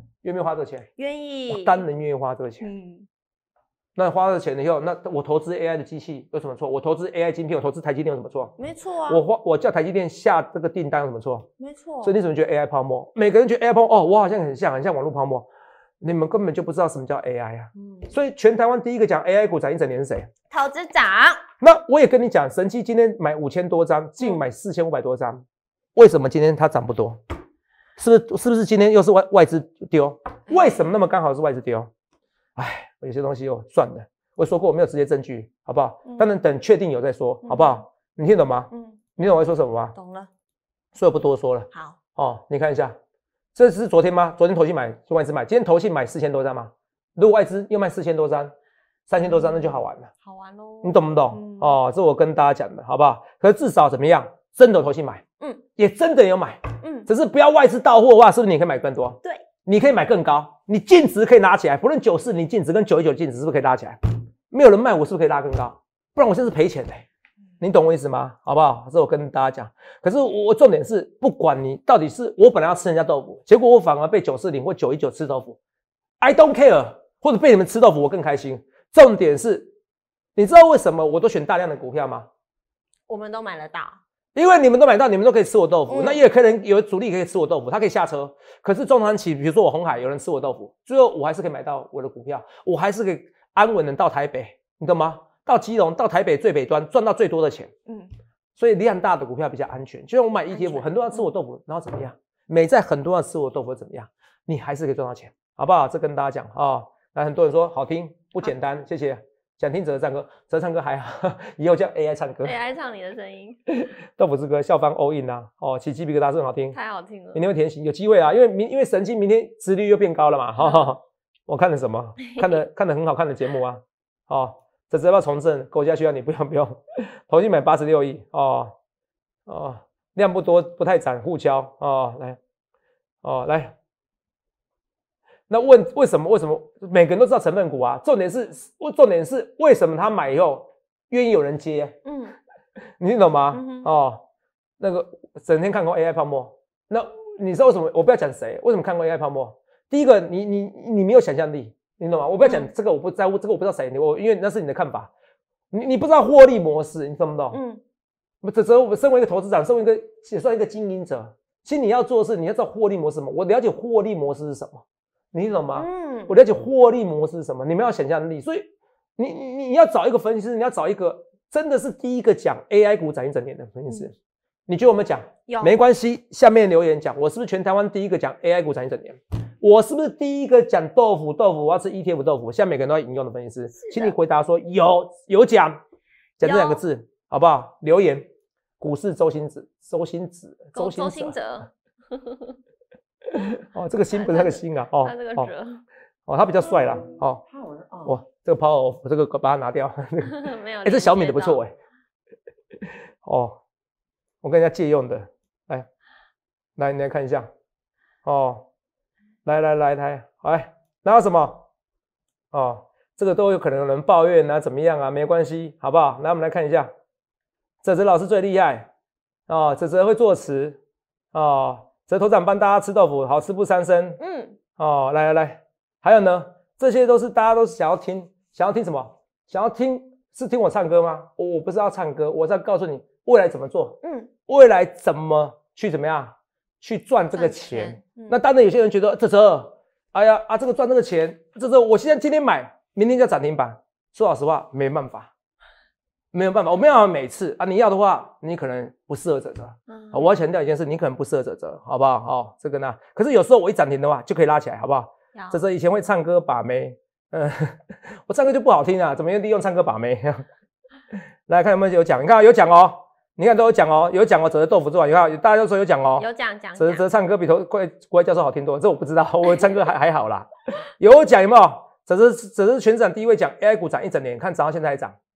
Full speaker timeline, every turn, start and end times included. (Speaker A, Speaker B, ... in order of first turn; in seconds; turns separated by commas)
Speaker A: 0.2-0.9, Speaker B: 1.0-1.8, Speaker A: 1.5-2.7, Speaker B: 2.6-3.1, Speaker A: 4.0-8.6, Speaker B: 8.6-9.2, Speaker A: 9.1-11.5, Speaker B: 11.6-12.2, Speaker A: 12.0-15.5, Speaker A: 16.0-20.3, Speaker B: 17.8-18.1, Speaker B: 20.5-21.4, Speaker A: 21.6-25.4, Speaker A: 25.9-27.2, Speaker A: 28.0-31.9, Speaker B: 30.5-30.8, Speaker A: 32.6-40.0, Speaker B: 36.1-36.3, Speaker B: 37.5-37.8, Speaker B: 38.7-39.0, Speaker B: 40.0-40.3, Speaker A: 41.0-43.0, Speaker B: 41.7-42.0, Speaker A: 43.5-48.5, Speaker A: 49.1-50.1, Speaker B: 50.2-51.8, Speaker A: 50.8-55.2, Speaker A: 55.8-64.0, Speaker B: 56.8-57.1, Speaker A: 64.5-67.1, Speaker A: 67.6-75.6, Speaker A: 76.2-79.7, Speaker A: 80.4-82.3, Speaker B: 83.1-84.0, Speaker A: 84.3-97.7, Speaker B: 85.9-86.2, Speaker A: 98.6-112.6, Speaker B: 100.5-101.2, Speaker B: 112.4-113.6, Speaker A: 113.7-116.8, Speaker B: 116.7-117.4, Speaker A: 117.3-128.7, Speaker B: 120.6-120.9, Speaker A: 129.5-132.4, Speaker A: 133.2-133.7, Speaker A: 135.5-142.0, Speaker B: 142.1-142.4, Speaker A: 143.0-144.2, Speaker B: 143.5-143.9, Speaker A: 144.8-155.1, Speaker A: 155.7-157.6, Speaker B: 157.5-157.8, Speaker A: 158.4-174.1, Speaker B: 165.8-166.3, Speaker A: 174.7-185.8, Speaker B: 175.5-175.8, Speaker B: 183.8-184.1, Speaker A: 186.4-188.3, Speaker B: 186.4-186.8, Speaker A: 188.8-191.4, Speaker B: 190.8-192.4, Speaker A: 193.4-195.5, Speaker B: 194.1-195.8, Speaker A: 196.3-197.4, Speaker A: 198.0-201.7, Speaker B: 200.3-201.6, Speaker A: 203.2-203.6, Speaker A: 204.4-205.9, Speaker A: 206.8-207.5, Speaker A: 208.2-208.7, Speaker A: 209.4-211.7, Speaker A: 212.5-216.9, Speaker A: 217.8-218.9, Speaker A: 219.5-220.8, Speaker A: 221.3-224.2, Speaker B: 224.2-224.6, Speaker A: 224.8-245.3, Speaker B: 234.0-234.3, Speaker B: 237.3-238.4, Speaker A: 246.3-260.5, Speaker B: 249.9-250.3, Speaker B: 255.3-255.6, Speaker A: 261.5-275.2, Speaker B: 266.2-267.0